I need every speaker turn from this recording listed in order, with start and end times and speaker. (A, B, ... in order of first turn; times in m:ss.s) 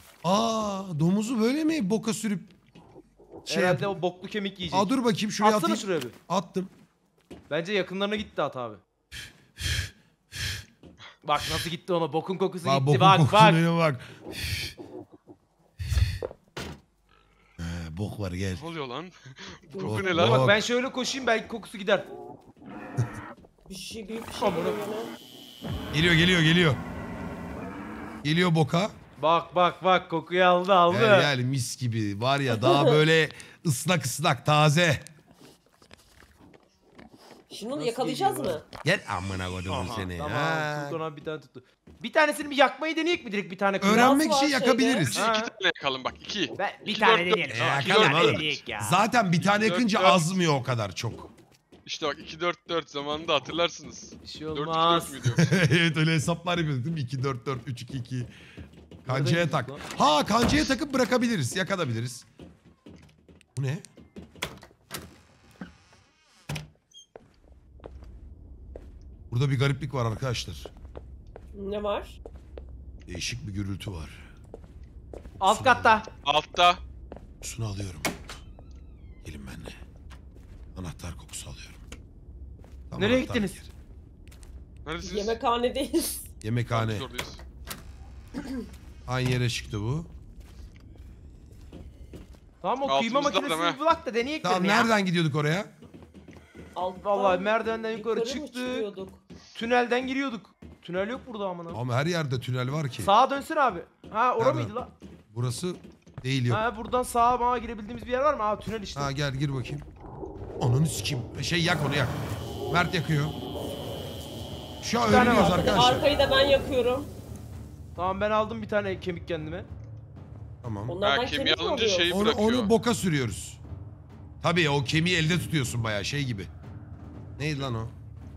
0:00.2-0:02.5 A
0:03.4-0:04.0 A
0:03.5-0:06.1 B
0:04.7-0:06.7 A
0:07.5-0:08.8 B
0:09.6-0:10.6 A
0:11.2-0:13.6 B
0:12.6-0:14.8 A
0:17.6-0:18.6 A
0:18.6-0:20.4 C
0:19.7-0:20.4 D
0:19.8-0:20.6 A
0:20.1-0:22.1 B
0:23.7-0:25.1 D
0:24.4-0:24.8 B
0:25.9-0:26.8 A
0:28.2-0:28.9 A
0:29.2-0:31.3 B
0:30.9-0:35.1 A
0:32.5-0:33.0 D
0:37.5-0:38.6 D
0:37.7-0:38.6 B
0:38.8-0:41.0 A
0:39.7-0:44.2 B
0:43.8-0:45.2 A
0:43.9-0:45.1 D
0:45.1-0:48.4 C
0:45.1-0:45.5 B
0:46.6-0:49.0 B
0:47.5-0:51.3 A
0:49.4-0:50.4 C
0:51.8-0:55.5 C
0:54.2-0:55.2 B
0:55.2-0:58.3 A
0:59.0-0:59.8 B
0:59.0-1:02.2 A
1:03.6-1:03.8 A
1:09.3-1:10.7 A
1:11.5-1:12.2 D
1:13.1-1:14.3 A
1:15.4-1:16.1 B
1:15.4-1:16.0 A
1:16.2-1:16.8 C
1:17.4-1:18.1 A
1:19.2-1:19.8 A
1:20.8-1:21.8 A
1:22.9-1:23.7 A
1:23.0-1:23.6 B
1:24.8-1:25.4 C
1:25.0-1:26.3 D
1:26.4-1:27.0 A
1:26.7-1:27.4 C
1:29.1-1:30.1 A
1:32.6-1:34.9 B
1:32.8-1:33.8 C
1:34.4-1:35.7 A
1:36.8-1:39.2 D
1:37.0-1:38.9 B
1:39.5-1:41.8 B
1:41.7-1:43.1 A
1:43.0-1:44.9 B
1:44.4-1:44.7 A
1:45.3-1:46.6 A
1:46.5-1:49.1 B
1:49.0-1:49.8 A
1:50.6-1:52.2 A
1:52.7-1:53.3 A
1:54.8-1:56.0 A
1:55.0-1:55.7 B
1:55.1-1:57.1 D
1:58.0-1:59.7 B
2:00.6-2:01.0 A
2:00.9-2:02.1 D
2:01.0-2:02.7 C
2:02.1-2:03.6 A
2:04.4-2:06.5 A
2:07.4-2:07.9 A